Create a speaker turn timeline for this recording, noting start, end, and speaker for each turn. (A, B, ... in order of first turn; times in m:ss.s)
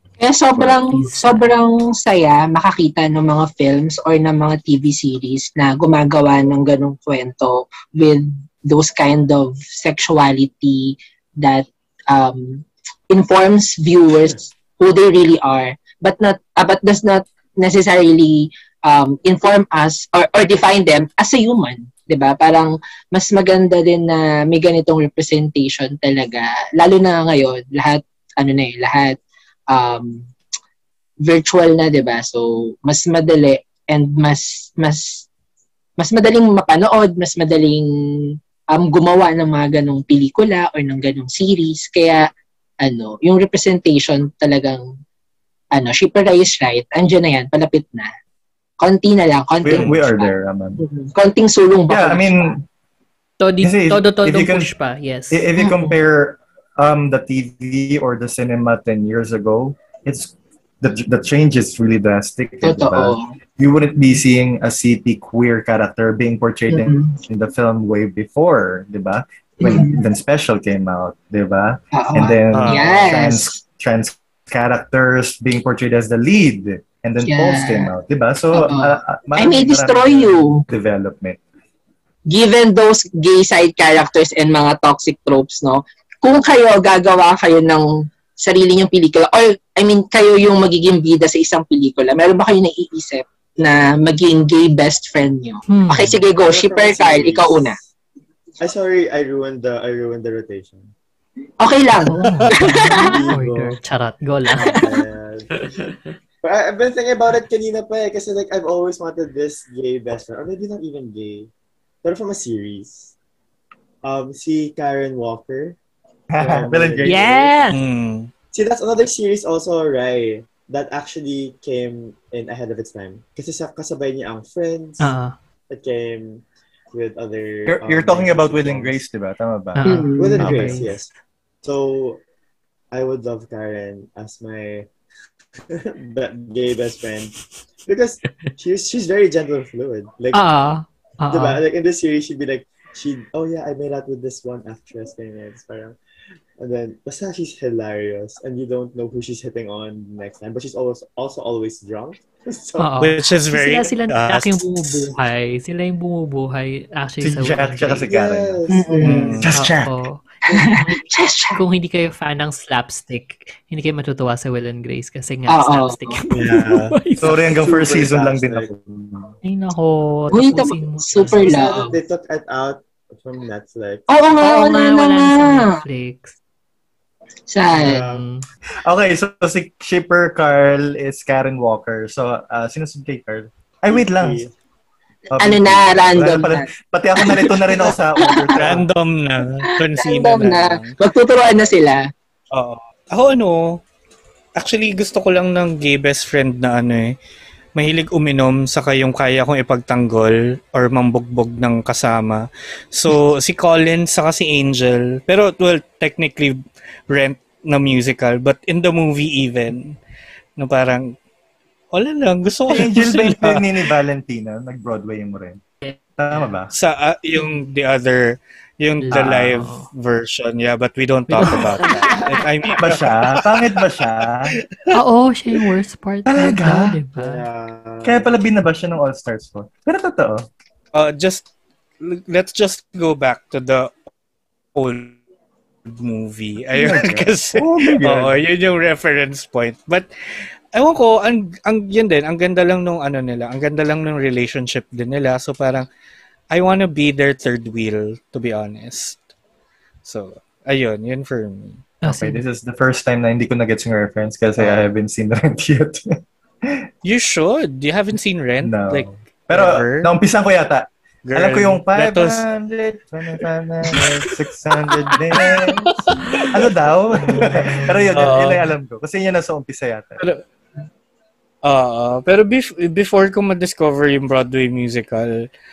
0:00.2-0:29.2 A
0:00.8-0:01.5 B
0:29.7-0:30.3 A
0:31.2-0:35.2 A
0:36.0-0:42.3 A
0:42.8-0:44.9 A
0:45.7-0:48.1 A
0:48.8-0:52.5 A
0:49.6-0:50.8 C
0:51.9-0:52.6 C
0:53.4-0:55.5 B
0:53.6-0:54.7 C
0:55.3-1:21.4 C
0:55.6-0:55.9 A
1:02.6-1:03.3 A
1:06.7-1:07.2 A
1:09.6-1:10.0 A
1:11.9-1:13.6 A
1:12.5-1:13.3 D
1:17.3-1:17.9 A
1:18.5-1:20.6 A
1:22.3-1:37.8 A
1:35.7-1:36.2 B
1:36.4-1:37.8 E
1:38.6-1:40.9 E
1:41.6-1:43.2 A
1:42.1-1:44.8 B
1:42.8-1:43.8 E
1:44.6-1:45.6 E
1:44.6-1:44.9 A
1:46.4-1:51.5 E
1:52.0-1:53.1 E
1:54.0-1:55.8 E
1:56.3-1:57.2 C
1:56.4-1:57.6 E
1:57.0-1:57.8 B
1:57.7-1:58.3 D
1:58.5-2:05.1 E
2:05.0-2:05.4 B
2:05.7-2:09.0 E
2:07.6-2:09.8 C
2:09.8-2:11.0 B
2:09.8-2:10.6 A
2:10.2-2:11.1 E
2:11.6-2:12.2 E
2:12.9-2:14.9 E
2:15.7-2:17.4 E
2:17.9-2:20.4 E
2:20.3-2:21.6 B
2:21.3-2:26.0 E
2:26.6-2:32.9 E
2:32.8-2:38.1 B
2:33.0-2:35.1 D
2:37.2-2:38.6 C
2:38.0-2:39.4 E
2:38.7-2:39.3 A
2:39.0-2:39.5 D
2:39.4-2:39.9 C
2:39.5-2:41.0 B
2:40.5-2:41.6 A
2:41.6-2:47.4 B
2:45.5-2:46.2 A
2:46.3-2:47.0 D
2:47.2-2:49.3 C
2:47.4-2:48.7 E
2:49.4-2:51.6 B
2:50.3-2:51.9 A
2:51.2-2:54.0 E
2:54.1-2:55.8 A
2:54.4-2:56.4 B
2:57.5-2:58.0 A
2:57.7-2:58.4 B
2:57.8-2:58.2 E
2:58.8-3:04.5 C
3:03.9-3:04.5 E
3:05.3-3:08.9 C
3:05.4-3:08.5 A
3:08.5-3:11.0 D
3:09.9-3:12.0 A
3:12.5-3:13.8 D
3:14.6-3:17.2 D
3:17.8-3:30.0 D
3:30.6-3:31.2 D
3:31.9-3:33.7 D
3:32.7-3:35.6 C
3:35.8-3:36.5 B
3:36.2-3:36.7 C
3:36.7-3:43.9 D
3:39.0-3:39.9 B
3:39.1-3:39.6 C
3:41.3-3:41.9 B
3:41.9-3:42.4 E
3:42.8-3:44.5 C
3:44.5-3:44.9 D
3:44.9-3:47.5 B
3:46.3-3:47.0 C
3:47.2-3:48.4 E
3:48.0-3:50.5 C
3:50.9-3:51.5 D
3:52.0-3:54.0 D
3:54.8-3:55.2 D
3:55.9-4:00.1 D
3:56.8-3:58.4 C
4:00.7-4:05.9 D
4:06.5-4:09.2 D
4:10.0-4:11.9 D
4:12.0-4:12.4 B
4:12.0-4:16.1 C
4:14.6-4:14.9 D
4:17.0-4:20.1 D
4:18.6-4:25.9 C
4:21.3-4:22.4 D
4:23.9-4:24.3 D
4:25.1-4:26.6 D
4:26.5-4:30.2 C
4:27.2-4:28.7 D
4:31.6-4:35.5 D